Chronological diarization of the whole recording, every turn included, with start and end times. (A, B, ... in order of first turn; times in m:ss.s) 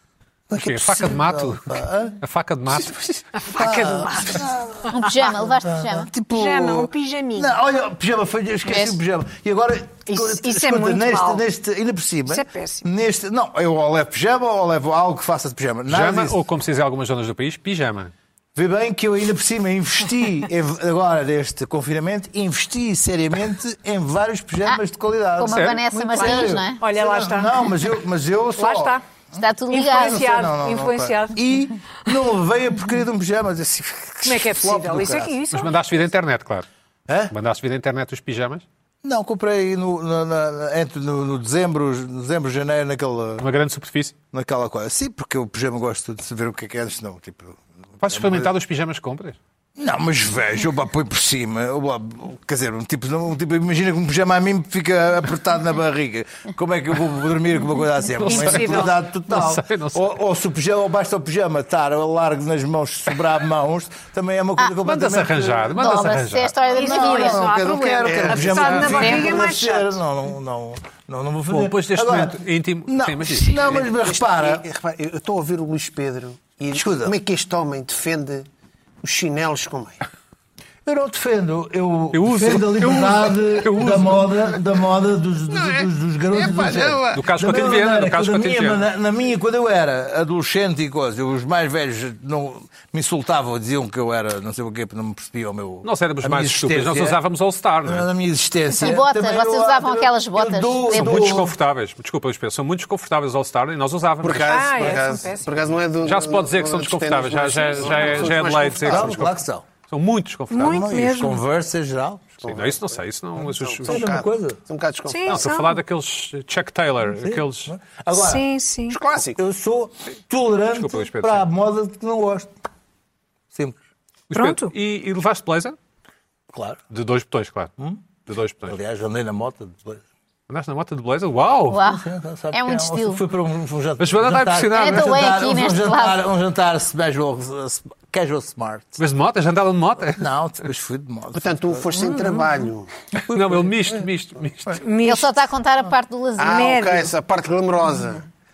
0:00.5-0:02.2 A
0:00.6-0:03.3 B
0:03.4-0:04.5 C
0:03.5-0:16.4 A
0:04.9-0:06.1 D
0:06.3-0:07.5 C
0:10.1-0:11.4 C
0:12.3-0:12.8 C
0:15.9-0:18.1 B
0:18.5-0:29.0 A
0:25.4-0:26.8 D
0:25.5-0:25.8 B
0:25.9-0:27.8 C
0:28.5-0:29.0 C
0:29.4-0:30.3 D
0:29.7-0:31.4 C
0:29.8-0:35.4 A
0:34.2-0:35.9 C
0:35.5-0:36.6 B
0:37.1-0:37.3 A
0:37.3-0:38.6 B
0:39.0-0:43.4 A
0:43.4-0:44.1 B
0:44.3-0:48.5 A
0:48.0-0:49.4 B
0:49.8-1:06.2 A
0:58.2-1:00.1 B
0:58.3-0:58.9 C
1:04.8-1:06.5 B
1:05.8-1:07.4 D
1:06.7-1:10.0 C
1:06.8-1:14.6 A
1:08.0-1:09.4 E
1:08.6-1:09.1 B
1:11.5-1:13.7 B
1:13.6-1:18.4 E
1:16.7-1:17.2 A
1:19.0-1:20.0 E
1:20.8-1:37.2 A
1:22.1-1:24.3 B
1:25.5-1:27.2 E
1:27.1-1:28.8 B
1:35.8-1:38.1 B
1:37.8-1:41.5 A
1:38.7-1:41.4 D
1:40.9-1:44.8 B
1:44.2-1:49.3 E
1:44.4-1:45.5 C
1:46.0-1:49.3 B
1:48.8-1:49.6 A
1:49.9-1:50.9 B
1:50.5-1:51.4 C
1:50.6-1:52.3 A
1:52.4-1:54.1 B
1:52.4-1:55.5 E
1:53.8-1:54.6 A
1:55.1-1:55.8 C
1:55.3-1:57.7 B
1:57.2-1:58.5 A
1:58.1-1:59.0 C
1:58.9-1:59.4 E
1:59.4-2:02.5 A
2:00.7-2:01.4 B
2:03.5-2:03.8 A
2:04.3-2:05.8 B
2:04.3-2:04.7 C
2:06.5-2:06.8 A
2:06.9-2:07.7 B
2:08.2-2:08.8 B
2:08.6-2:10.0 A
2:10.5-2:11.8 B
2:11.7-2:13.2 D
2:11.8-2:19.0 A
2:14.0-2:15.2 B
2:14.7-2:16.2 D
2:19.0-2:20.2 B
2:20.2-2:22.0 A
2:21.3-2:22.9 E
2:22.1-2:22.5 C
2:23.3-2:24.8 B
2:24.8-2:25.4 C
2:25.0-2:26.8 D
2:26.4-2:28.2 E
2:26.5-2:27.1 C